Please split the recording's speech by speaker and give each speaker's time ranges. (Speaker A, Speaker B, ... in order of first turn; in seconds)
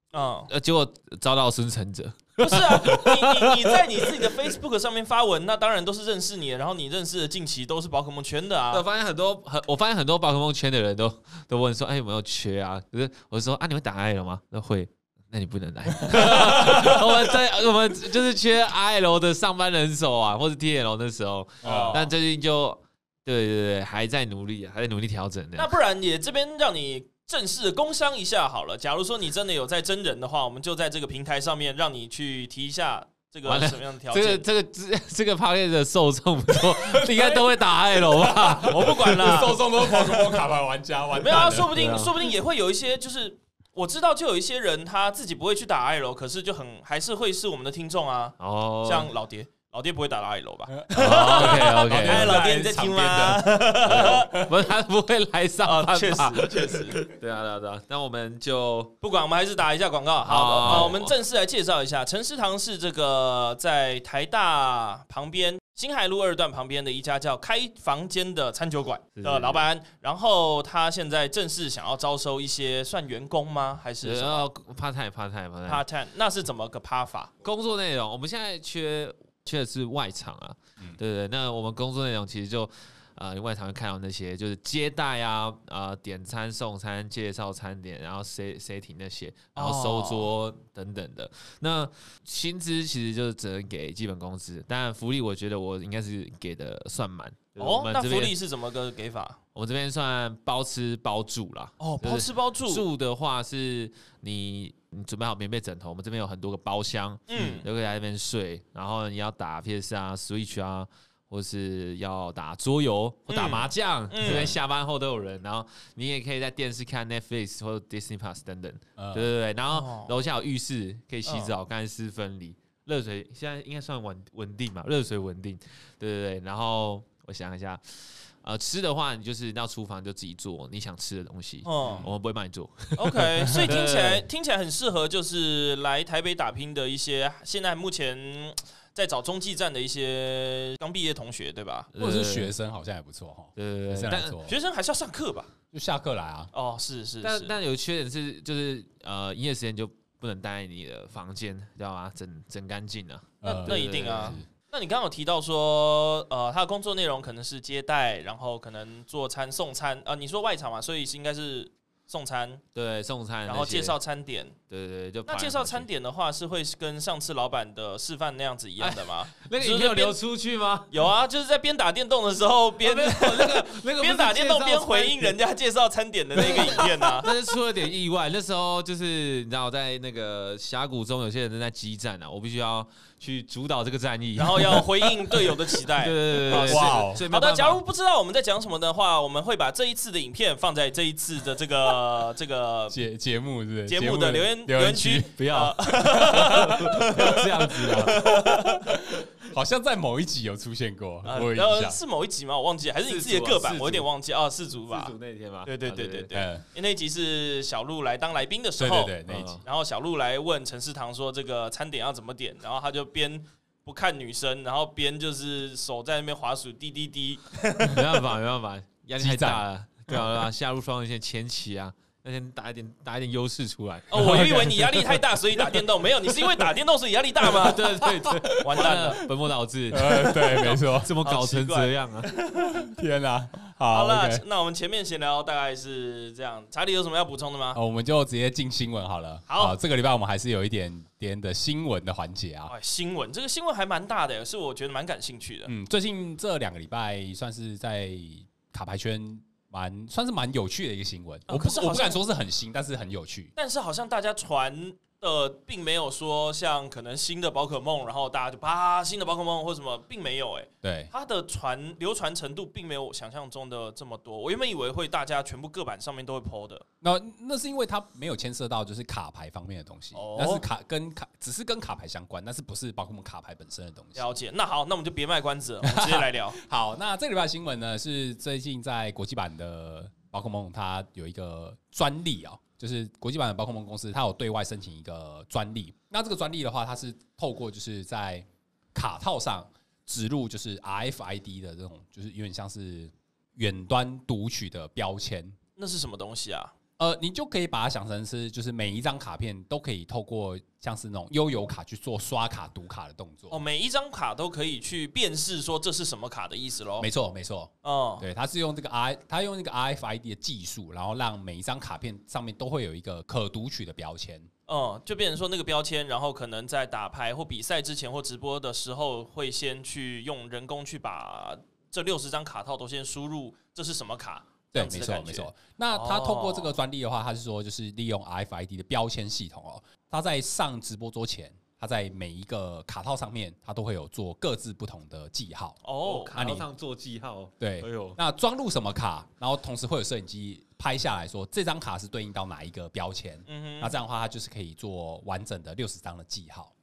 Speaker A: 0.1-0.5, 2.4-8.8, 21.6-22.1, 25.6-34.4, 36.9-37.4, 38.0-40.4, 41.1-54.4, 55.6-57.1, 59.0-74.5, 75.7-77.3, 89.5-90.3, 97.6-99.4, 101.8-102.8, 107.3-107.7, 113.3-114.5, 119.7-120.1, 121.2-121.5, 131.6-132.1, 132.9-141.9, 144.4-145.5, 146.5-147.5, 153.4-162.6, 163.5-164.6, 165.2-170.2, 170.9-177.3, 184.4-193.0, 193.9-198.9, 201.2-205.1, 205.6-218.2, 224.1-229.2, 230.3-232.9, 233.9-237.8, 239.5-239.8, 242.7-245.7, 251.5-252.2, 253.6-266.8, 270.1-270.6, 274.1-276.6, 295.8-296.7, 303.5-307.1, 307.8-308.2, 314.7-326.7, 335.8-336.4, 343.5-344.0
Speaker B: 0.5-4.4, 8.7-25.7, 33.4-39.5, 41.5-42.1, 48.4-49.1, 50.9-52.4, 53.8-58.9, 60.2-61.1, 69.2-69.6, 74.0-75.8, 77.4-98.3, 99.5-134.2, 141.9-142.5, 143.6-144.3, 147.2-154.4, 162.7-163.9, 164.7-165.9, 168.8-171.0, 172.8-175.3, 176.3-184.9, 185.9-187.8, 195.3-198.2, 203.1-204.1, 204.9-206.3, 209.3-209.6, 217.8-224.7, 227.5-232.3, 336.0-338.2
Speaker C: 21.6-22.0, 39.1-41.7, 50.7-54.5, 56.5-56.8, 60.6-60.9, 114.2-114.5, 119.0-119.3, 131.8-132.1, 142.0-144.5, 145.7-146.5, 153.4-154.5, 186.6-187.2, 192.9-195.3, 196.2-197.4, 197.9-202.0, 206.3-206.6, 208.8-209.6, 219.2-219.6, 224.2-225.2, 228.4-229.0, 229.9-231.1, 232.7-234.4, 237.7-242.7, 245.7-253.5, 260.8-261.1, 267.0-274.2, 275.8-295.6, 297.0-303.6, 307.0-314.5, 324.7-335.8, 336.3-336.7, 337.6-346.7